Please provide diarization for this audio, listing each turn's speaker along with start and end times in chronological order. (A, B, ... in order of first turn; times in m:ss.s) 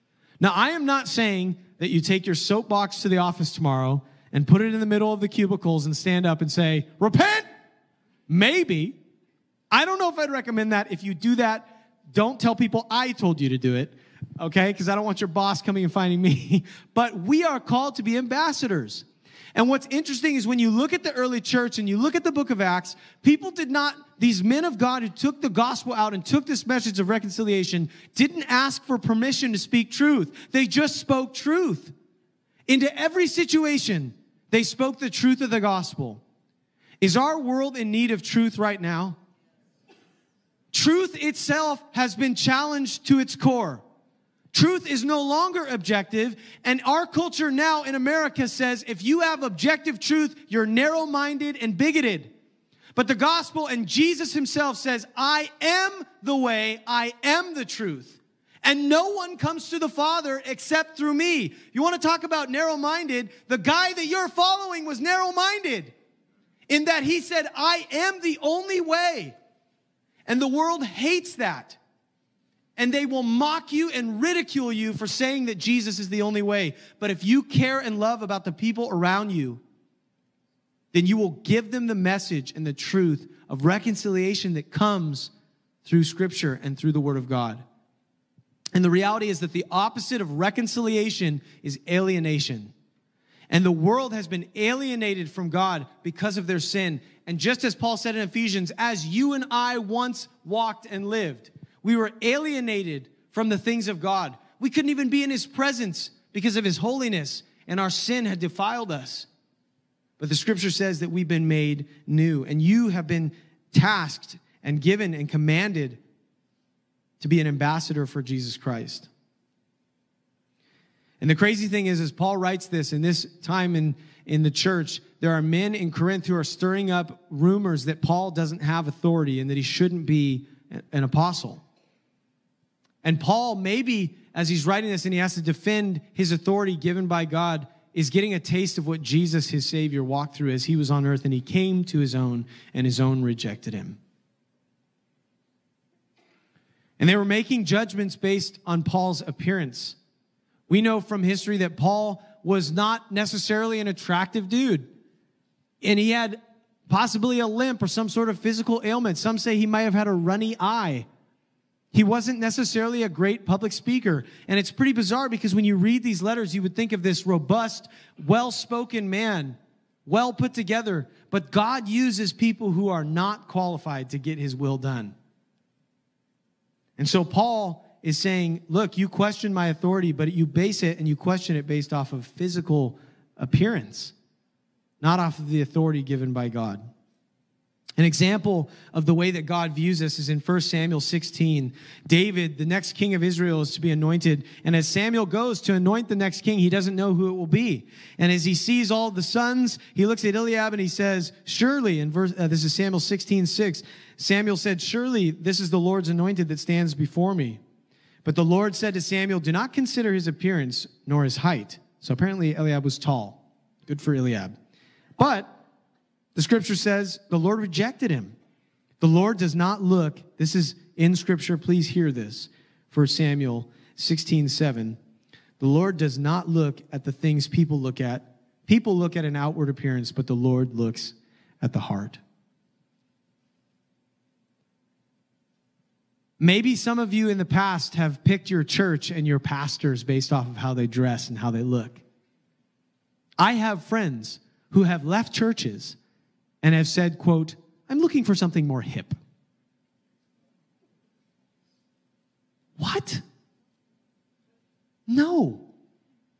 0:00.4-0:07.5 A
0:08.3-0:09.0 A
0:09.7-0:31.9 A
0:32.7-0:36.2 A
0:37.0-0:39.2 A
0:40.7-0:43.8 A
0:44.5-0:52.3 A
0:53.0-1:05.9 A
1:06.7-1:09.4 A
1:10.3-1:11.8 A
1:12.8-1:19.6 A
1:20.9-1:25.3 A
1:25.8-1:27.6 A
1:28.8-1:32.7 A
1:33.5-1:49.3 A
1:50.2-1:56.0 A
1:57.2-1:59.1 A
2:01.2-2:11.6 A
2:13.0-2:24.0 A
2:27.0-2:30.0 A
2:30.7-2:34.9 A
2:35.8-2:41.1 A
2:41.9-2:55.1 A
2:57.0-3:04.1 A
3:05.0-3:06.9 A
3:08.0-3:27.6 A
3:28.2-3:34.6 A
3:35.2-3:35.6 A
3:36.4-3:38.3 A
3:39.0-3:45.0 A
3:45.6-3:52.2 A
3:56.4-4:02.0 A
4:03.4-4:06.0 A
4:06.6-4:09.2 A
4:12.8-4:13.2 A
4:15.1-4:15.7 A